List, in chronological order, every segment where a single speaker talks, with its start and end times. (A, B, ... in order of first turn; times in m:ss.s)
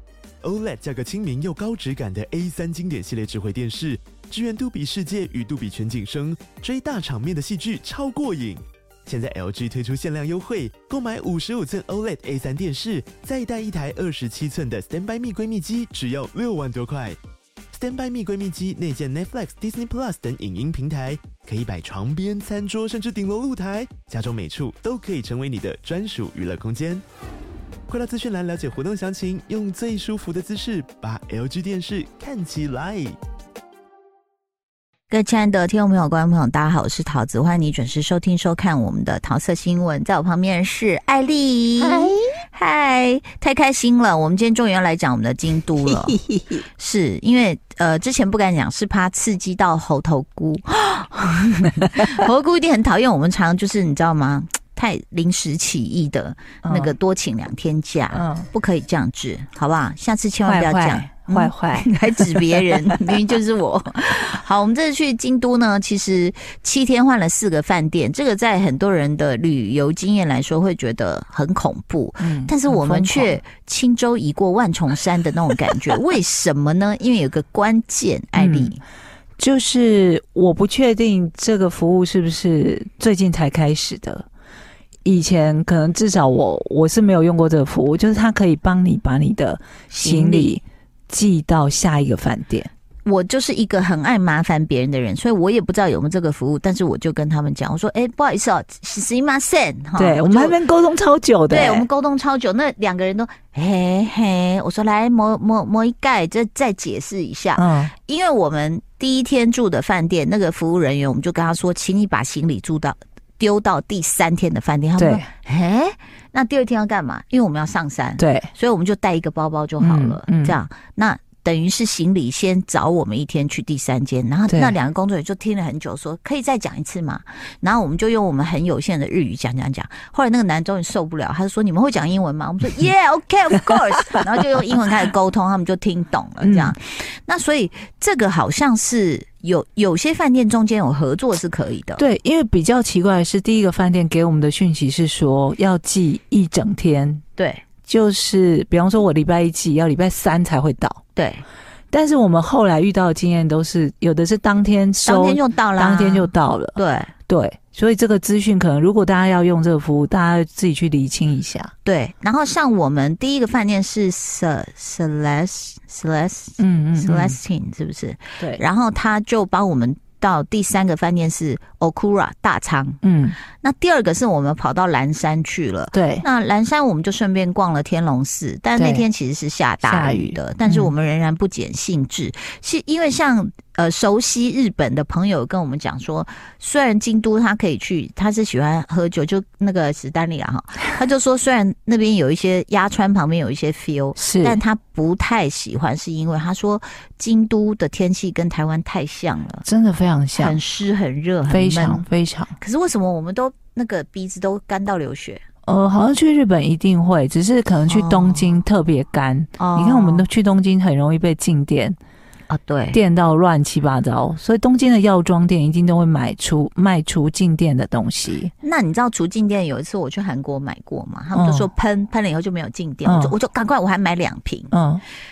0:00.4-0:17.2 A
0:17.7-0:27.0 A
0:27.9-0:33.2 A
0:35.1-1:18.8 B
0:41.8-0:42.2 C
0:45.9-0:46.6 C
0:56.6-0:56.9 C
0:58.1-0:58.5 C
1:00.5-1:03.2 C
1:12.2-1:13.4 C
1:18.4-1:18.7 C
1:19.4-1:24.3 C
1:25.0-1:32.7 C
1:29.9-1:30.6 B
1:33.0-1:40.6 B
1:40.0-1:41.9 C
1:41.5-2:22.0 B
1:47.6-1:47.9 C
1:55.0-1:55.3 C
1:58.2-1:58.5 C
1:59.8-2:00.6 C
2:16.4-2:16.7 C
2:22.0-2:27.2 C
2:27.4-2:27.6 B
2:27.9-2:31.0 C
2:31.2-2:31.4 B
2:31.9-2:41.7 C
2:35.0-2:37.1 B
2:41.8-2:53.0 B
2:46.6-2:47.4 C
2:53.0-2:53.4 C
2:53.6-3:19.6 B
2:55.9-2:56.2 C
2:58.8-2:59.1 C
2:59.8-3:00.9 C
3:14.2-3:14.6 C
3:19.6-3:20.6 C
3:20.4-3:22.0 B
3:21.5-3:22.6 C
3:22.6-3:25.4 B
3:25.7-3:32.0 C
3:27.9-3:28.6 B
3:29.6-3:30.3 B
3:32.5-3:33.0 B
3:32.9-3:38.5 C
3:38.6-3:44.7 B
3:41.4-3:41.7 C
3:43.0-3:43.3 C
3:44.7-3:45.0 C